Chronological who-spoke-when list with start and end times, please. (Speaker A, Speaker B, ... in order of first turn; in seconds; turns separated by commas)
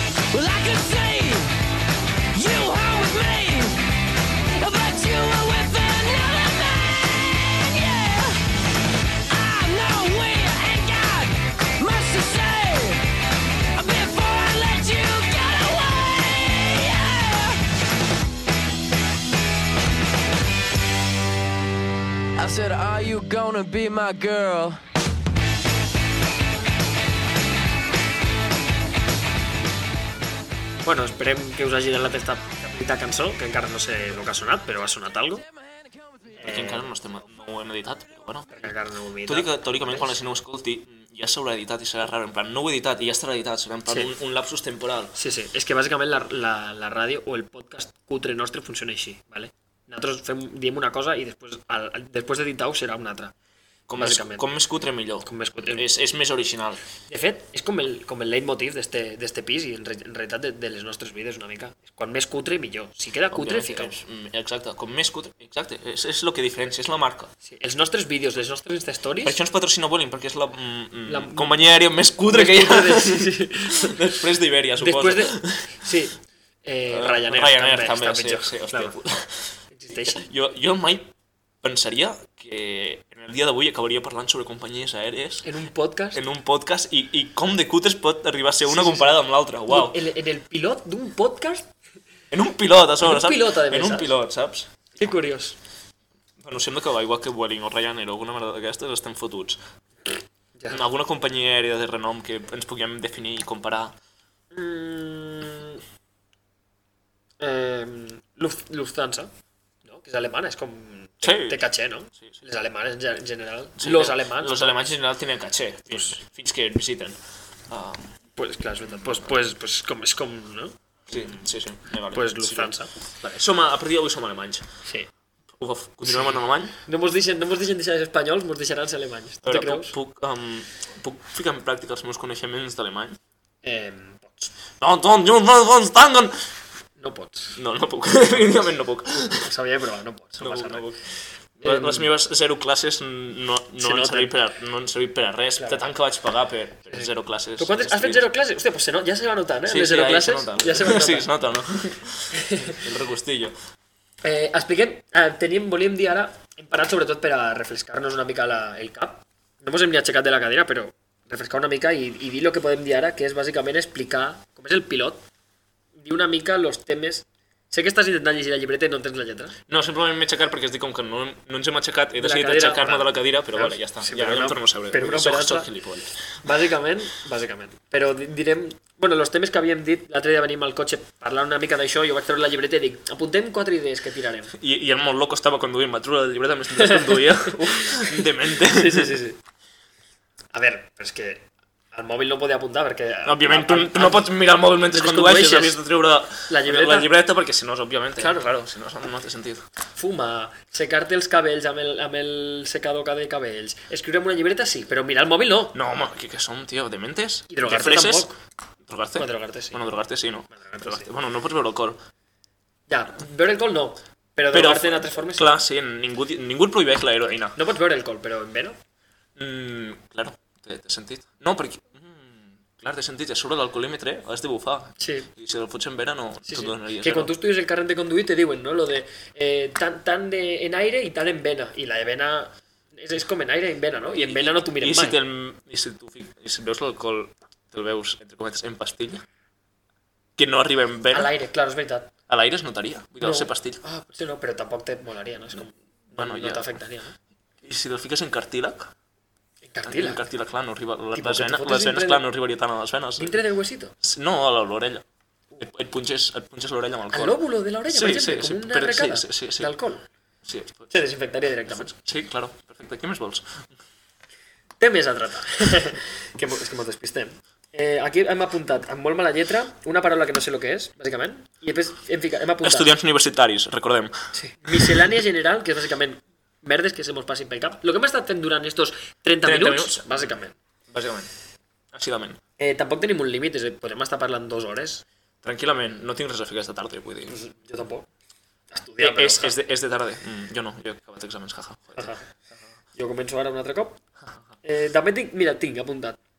Speaker A: 0.3-1.7, Speaker A: 2.3-13.2, Speaker A: 13.8-17.7, Speaker A: 22.4-24.8, Speaker B: 30.9-35.4, Speaker A: 35.7-36.4, Speaker C: 36.4-38.7, Speaker B: 36.4-36.9, Speaker B: 38.5-40.2, Speaker C: 39.2-45.1, Speaker B: 43.9-44.1, Speaker B: 45.1-53.3, Speaker C: 53.9-56.8, Speaker B: 54.0-54.5, Speaker B: 55.2-55.9, Speaker B: 57.1-64.0, Speaker C: 63.3-67.3, Speaker B: 67.4-69.4, Speaker C: 69.2-75.8, Speaker B: 71.1-71.6, Speaker B: 72.3-74.0, Speaker B: 74.8-79.0, Speaker C: 76.9-81.1, Speaker B: 79.7-80.3, Speaker C: 81.6-85.5, Speaker B: 85.4-86.2, Speaker C: 86.1-90.0, Speaker B: 88.7-91.7, Speaker C: 92.3-94.7, Speaker B: 93.0-94.2, Speaker B: 95.0-95.6, Speaker C: 96.4-99.6, Speaker B: 100.6-100.8, Speaker C: 100.7-104.0, Speaker B: 104.5-105.8, Speaker B: 107.4-109.3, Speaker B: 109.8-114.9, Speaker C: 111.2-111.7, Speaker C: 113.8-117.2, Speaker C: 117.7-118.1, Speaker B: 118.4-121.4, Speaker C: 119.0-119.3, Speaker C: 121.1-124.7, Speaker B: 122.1-122.9, Speaker C: 125.5-126.8, Speaker B: 126.1-129.9, Speaker C: 129.4-133.2, Speaker B: 133.6-134.5, Speaker C: 134.8-136.4, Speaker B: 137.0-137.6, Speaker C: 137.6-139.5, Speaker B: 139.4-140.9, Speaker C: 140.4-141.0, Speaker B: 141.6-142.1, Speaker C: 141.6-148.3, Speaker B: 143.8-144.3, Speaker B: 145.6-145.9, Speaker B: 146.9-151.3, Speaker C: 149.7-153.5, Speaker B: 152.3-152.8, Speaker B: 154.2-165.2, Speaker B: 165.9-169.6, Speaker C: 169.7-176.2, Speaker B: 172.2-175.7, Speaker B: 176.4-184.5, Speaker C: 184.6-189.2, Speaker B: 186.8-189.4, Speaker B: 190.5-194.3, Speaker C: 193.2-199.7, Speaker B: 194.9-195.8, Speaker B: 196.5-197.1, Speaker B: 198.2-198.5, Speaker B: 200.0-205.8, Speaker C: 205.7-208.3, Speaker B: 207.5-208.4, Speaker C: 208.9-212.0, Speaker B: 209.2-209.8, Speaker B: 210.5-211.1, Speaker B: 212.9-215.5, Speaker C: 214.5-217.6, Speaker B: 217.6-218.8, Speaker C: 219.4-227.3, Speaker B: 225.0-225.3, Speaker B: 226.5-235.2, Speaker C: 234.1-239.2, Speaker C: 240.4-241.3, Speaker B: 241.1-242.1, Speaker C: 242.3-243.8, Speaker B: 243.2-247.2, Speaker C: 246.1-246.8, Speaker C: 247.6-248.9, Speaker B: 249.6-250.2, Speaker C: 249.8-253.4, Speaker B: 251.1-252.3, Speaker B: 253.2-253.9, Speaker C: 254.0-255.0, Speaker C: 255.6-259.7, Speaker B: 257.1-260.1, Speaker C: 260.4-260.9, Speaker B: 260.9-261.9, Speaker C: 261.7-263.7, Speaker B: 264.8-272.9, Speaker C: 272.6-274.1, Speaker B: 274.3-280.6, Speaker C: 274.7-275.0, Speaker C: 279.4-280.3, Speaker C: 280.9-281.3, Speaker C: 281.9-282.4, Speaker B: 282.6-285.0, Speaker C: 285.4-287.4, Speaker B: 287.3-288.1, Speaker B: 288.7-289.6, Speaker C: 289.0-292.2, Speaker B: 292.0-292.2, Speaker B: 293.0-294.0, Speaker B: 294.6-296.2